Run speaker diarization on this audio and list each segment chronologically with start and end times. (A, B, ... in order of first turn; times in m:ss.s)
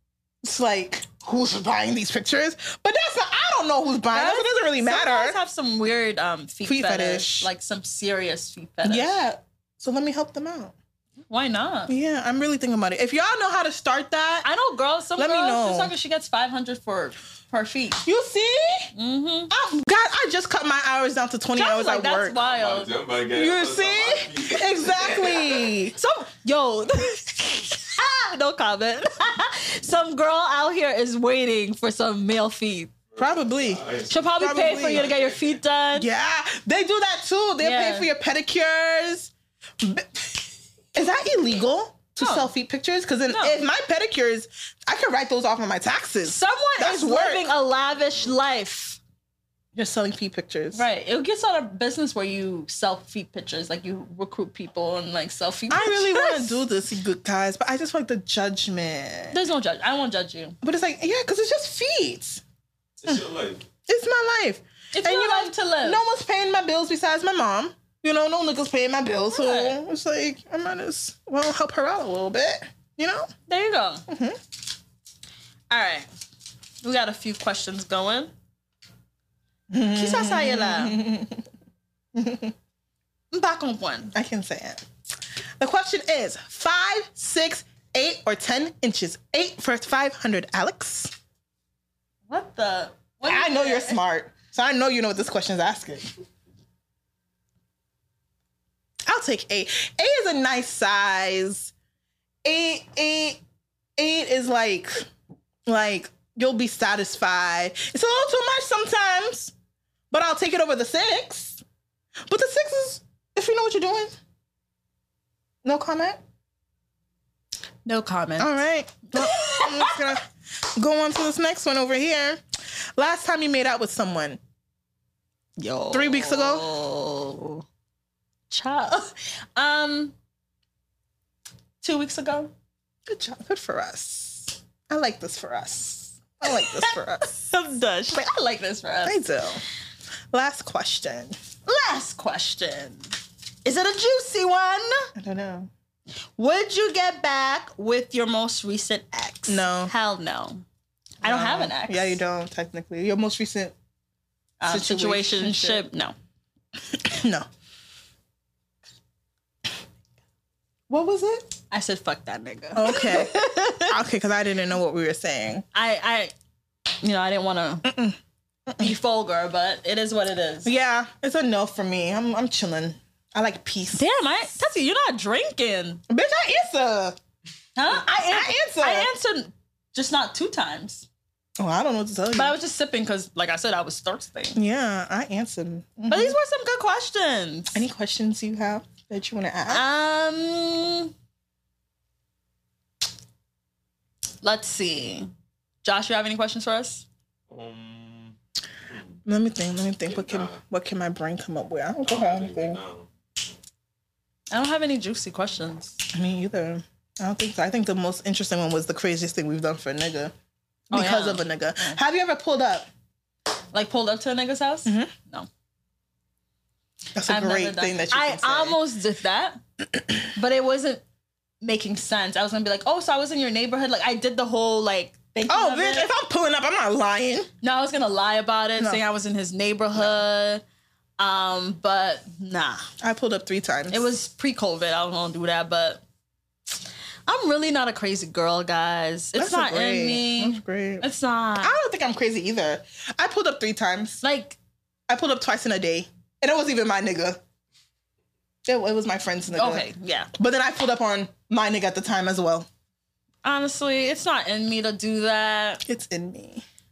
0:00.4-0:05.4 A
0:04.1-0:09.2 B
0:06.6-0:07.5 A
0:08.8-0:10.7 A
0:11.3-0:11.9 B
0:11.9-0:14.5 A
0:14.4-0:18.0 B
0:15.2-0:15.9 A
0:18.0-0:18.9 A
0:18.9-0:19.5 B
0:19.5-0:22.4 A
0:21.5-0:22.9 B
0:22.4-0:25.7 C
0:23.3-0:25.9 A
0:25.9-0:32.9 B
0:33.1-0:35.6 C
0:33.2-0:33.8 A
0:34.1-0:36.1 B
0:34.4-0:35.1 A
0:35.9-0:40.4 A
0:37.6-0:38.1 B
0:40.9-0:47.5 A
0:42.2-0:42.5 B
0:43.3-0:43.6 B
0:46.2-0:49.0 B
0:49.7-0:50.8 A
0:50.7-0:56.6 B
0:55.7-0:59.4 A
0:59.3-1:00.6 B
1:00.6-1:02.4 A
1:03.0-1:03.6 C
1:03.9-1:13.3 A
1:04.9-1:06.0 B
1:09.3-1:09.8 B
1:13.5-1:14.0 B
1:14.1-1:14.4 A
1:15.7-1:16.1 B
1:16.8-1:18.3 B
1:19.7-1:21.4 A
1:19.9-1:21.0 B
1:22.1-1:22.5 A
1:23.3-1:24.1 B
1:24.1-1:24.8 A
1:25.6-1:31.1 A
1:32.3-1:34.0 B
1:33.2-1:36.0 A
1:39.1-1:41.7 A
1:42.4-1:43.4 A
1:44.0-1:45.1 A
1:45.6-1:49.5 A
1:50.1-1:51.6 A
1:52.3-1:54.1 A
1:55.6-1:56.2 A
1:57.8-1:58.6 B
1:58.4-2:02.4 A
1:59.1-2:00.2 B
2:03.0-2:04.4 A
2:05.6-2:07.6 B
2:05.9-2:06.7 A
2:08.5-2:10.1 B
2:11.8-2:12.5 B
2:13.1-2:17.3 A
2:16.5-2:19.2 B
2:19.0-2:19.6 A
2:20.3-2:21.4 A
2:21.6-2:23.0 B
2:23.6-2:25.1 B
2:25.1-2:25.7 A
2:26.4-2:30.6 B
2:29.5-2:29.9 A
2:31.2-2:32.2 B
2:31.2-2:33.7 A
2:34.6-2:36.1 B
2:34.6-2:35.8 A
2:37.0-2:37.4 A
2:40.9-2:41.5 A
2:41.7-2:43.9 B
2:42.7-2:45.6 A
2:45.7-2:46.3 B
2:47.0-2:47.9 B
2:47.8-2:48.2 A
2:48.7-2:48.9 A
2:48.8-2:50.7 B
2:50.6-2:54.0 A
2:53.9-2:56.0 B
2:56.1-2:57.2 A
2:57.8-3:01.1 B
2:57.9-2:59.1 A
3:01.6-3:02.6 A
3:02.3-3:04.6 B
3:04.6-3:06.4 A
3:06.1-3:07.8 B
3:07.7-3:09.8 A
3:09.7-3:11.1 B
3:14.4-3:15.3 B
3:15.8-3:17.0 B
3:17.5-3:18.3 C
3:19.2-3:22.8 A
3:20.0-3:20.6 C
3:22.0-3:23.1 C
3:24.5-3:26.0 B
3:26.1-3:30.3 A
3:30.9-3:32.9 A
3:30.9-3:32.0 B
3:33.7-3:35.5 B
3:34.8-3:35.1 A
3:37.1-3:38.8 A
3:37.3-3:39.6 B
3:40.3-3:41.0 B
3:41.6-3:46.1 B
3:45.5-3:47.5 A
3:47.6-3:50.6 B
3:51.2-3:52.9 B
3:53.0-3:54.0 A
3:53.9-3:56.0 B
3:57.3-4:01.8 B
3:59.4-4:01.0 A
4:01.6-4:04.2 A
4:04.2-4:04.6 B
4:05.1-4:07.4 A
4:08.6-4:12.7 A
4:09.5-4:10.3 B
4:13.4-4:15.8 B
4:15.8-4:16.6 A